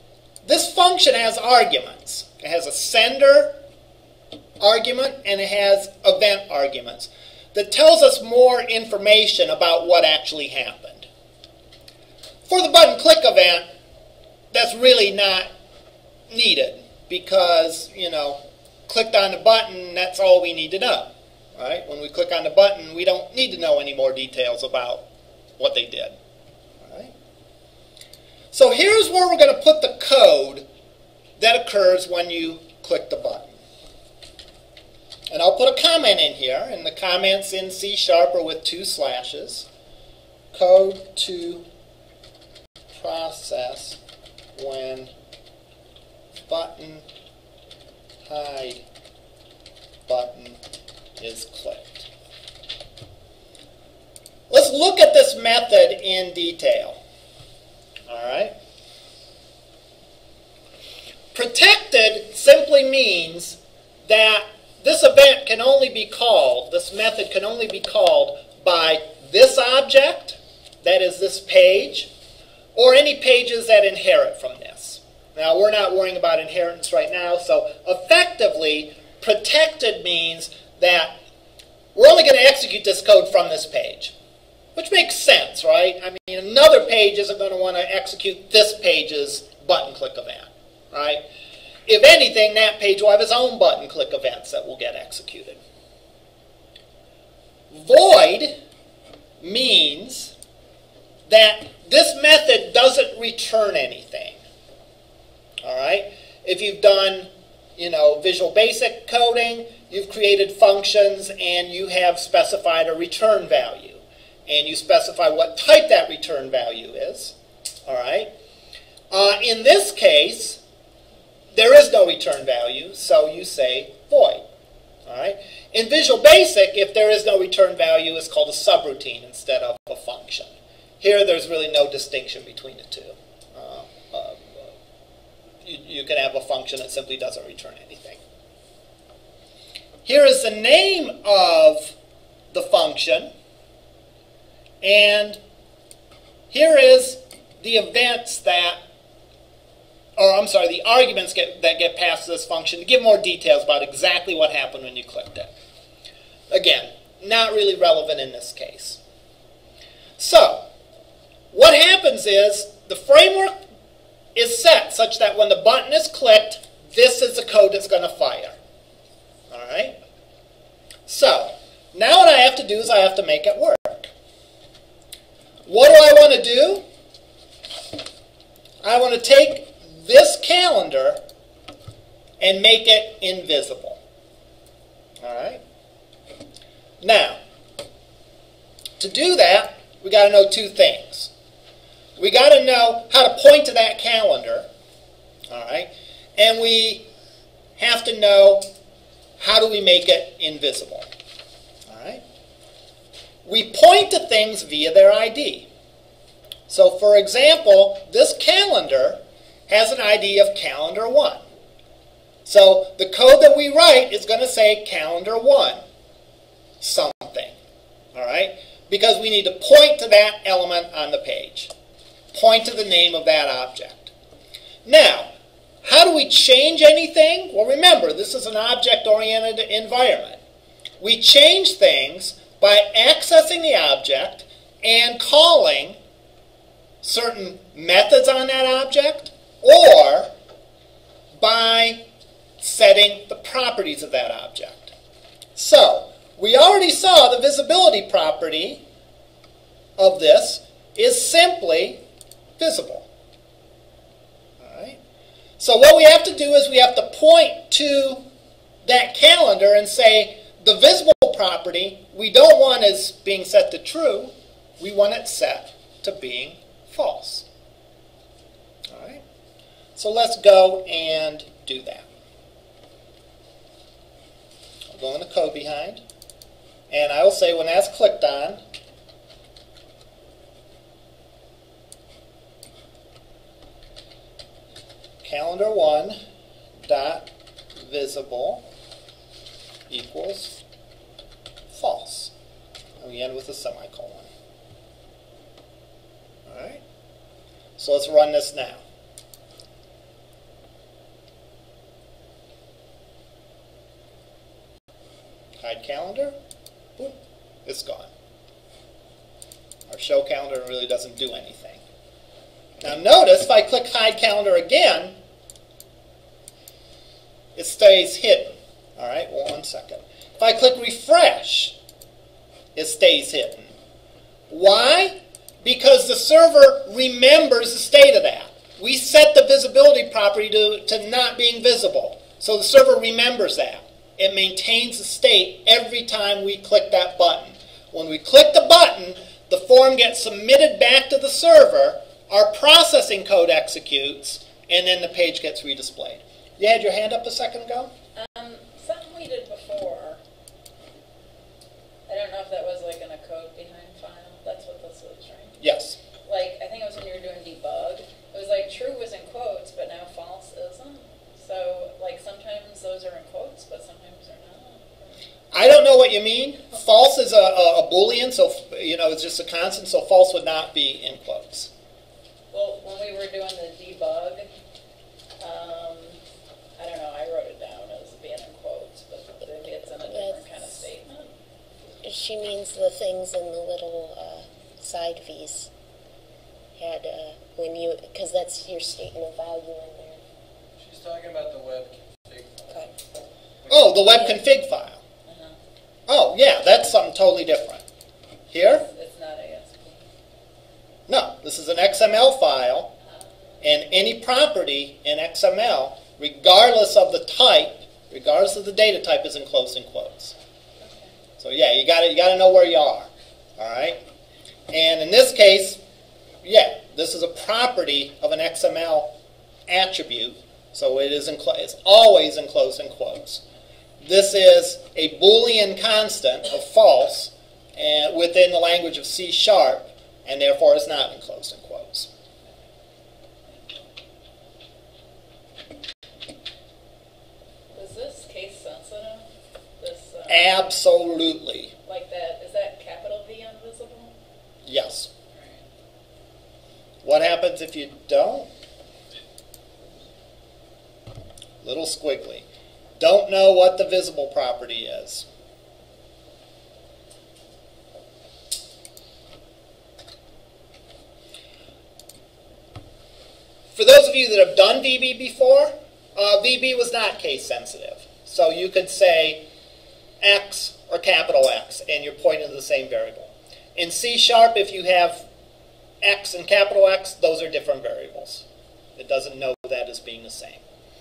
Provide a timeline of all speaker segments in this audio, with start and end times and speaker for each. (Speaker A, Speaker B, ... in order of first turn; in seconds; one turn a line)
Speaker A: 0.4-3.5
Speaker A: 4.6-11.1
Speaker A: 12.5-13.7
Speaker A: 14.5-15.5
Speaker A: 16.3-25.0
Speaker A: 25.6-26.2
Speaker A: 26.8-27.1
Speaker A: 28.5-30.6
Speaker A: 31.4-33.6
Speaker A: 35.3-39.7
Speaker A: 40.5-41.7
Speaker A: 43.0-44.0
Speaker A: 44.5-45.1
Speaker A: 46.5-47.0
Speaker A: 48.2-48.8
Speaker A: 50.1-50.6
Speaker A: 51.2-52.1
Speaker A: 54.5-57.0
Speaker A: 58.1-58.5
Speaker A: 61.3-72.1
Speaker A: 72.8-81.2
Speaker A: 81.9-84.1
Speaker A: 84.8-91.2
Speaker A: 91.9-95.6
Speaker A: 97.7-98.5
Speaker A: 99.4-100.3
Speaker A: 101.3-104.4
Speaker A: 105.6-117.3
Speaker A: 117.9-118.3
Speaker A: 119.1-120.6
Speaker A: 121.5-124.4
Speaker A: 125.0-134.7
Speaker A: 135.6-138.2
Speaker A: 140.0-142.0
Speaker A: 142.5-143.3
Speaker A: 144.8-145.4
Speaker A: 146.5-148.8
Speaker A: 150.2-155.5
Speaker A: 156.5-159.0
Speaker A: 160.2-160.7
Speaker A: 161.5-163.6
Speaker A: 164.3-168.6
Speaker A: 169.5-170.0
Speaker A: 171.1-174.1
Speaker A: 175.7-176.8
Speaker A: 178.8-181.2
Speaker A: 182.4-184.0
Speaker A: 185.2-185.6
Speaker A: 187.0-187.4
Speaker A: 189.0-191.3
Speaker A: 192.2-194.7
Speaker A: 195.5-197.1
Speaker A: 197.8-198.7
Speaker A: 199.4-201.1
Speaker A: 201.9-202.2
Speaker A: 203.4-205.7
Speaker A: 206.7-211.4
Speaker A: 212.4-215.8
Speaker A: 216.8-217.5
Speaker A: 218.1-221.7
Speaker A: 222.3-224.1
Speaker A: 224.8-225.3
Speaker A: 225.8-230.4
Speaker A: 231.0-236.0
Speaker A: 237.0-240.3
Speaker A: 241.3-242.0
Speaker A: 242.6-244.9
Speaker A: 245.6-248.8
Speaker A: 250.0-252.0
Speaker A: 252.6-253.1
Speaker A: 254.6-255.0
Speaker A: 255.6-258.2
Speaker A: 258.9-267.5
Speaker A: 268.9-269.2
Speaker A: 270.0-272.1
Speaker A: 274.9-276.0
Speaker A: 276.9-278.6
Speaker A: 285.2-286.2
Speaker A: 286.9-287.3
Speaker A: 287.8-288.6
Speaker A: 289.9-290.6
Speaker A: 291.7-292.3
Speaker A: 293.0-294.3
Speaker A: 296.5-296.8
Speaker A: 297.8-298.8
Speaker A: 305.6-306.4
Speaker A: 307.0-308.1
Speaker A: 309.9-311.8
Speaker A: 312.8-315.2
Speaker A: 317.6-321.8
Speaker A: 322.8-323.7
Speaker A: 324.5-347.9
Speaker B: 348.1-350.2
Speaker B: 352.1-355.6
Speaker A: 355.6-356.0
Speaker B: 356.2-365.2
Speaker A: 365.5-371.7
Speaker B: 372.5-374.5
Speaker B: 375.4-376.2
Speaker B: 376.8-381.3
Speaker C: 380.1-380.4
Speaker C: 382.0-385.7
Speaker C: 386.8-390.2
Speaker D: 390.8-392.9
Speaker D: 393.6-394.1
Speaker A: 393.7-395.0
Speaker B: 395.3-395.6
Speaker A: 396.1-397.8
Speaker A: 398.5-398.9
Speaker B: 398.6-400.0
Speaker A: 401.1-402.9
Speaker A: 403.6-410.4
Speaker B: 410.8-411.1
Speaker A: 411.4-414.0
Speaker A: 414.7-415.8
Speaker A: 416.4-419.1
Speaker A: 419.7-423.4
Speaker A: 424.0-432.1
Speaker B: 433.5-433.8
Speaker B: 437.7-439.3
Speaker B: 439.8-440.6
Speaker A: 440.3-441.7
Speaker B: 441.9-444.1
Speaker A: 444.6-445.1
Speaker A: 447.0-448.5
Speaker A: 451.6-452.5
Speaker A: 453.0-455.3
Speaker A: 463.7-469.4
Speaker A: 470.2-475.2
Speaker A: 476.0-478.4
Speaker A: 479.0-480.6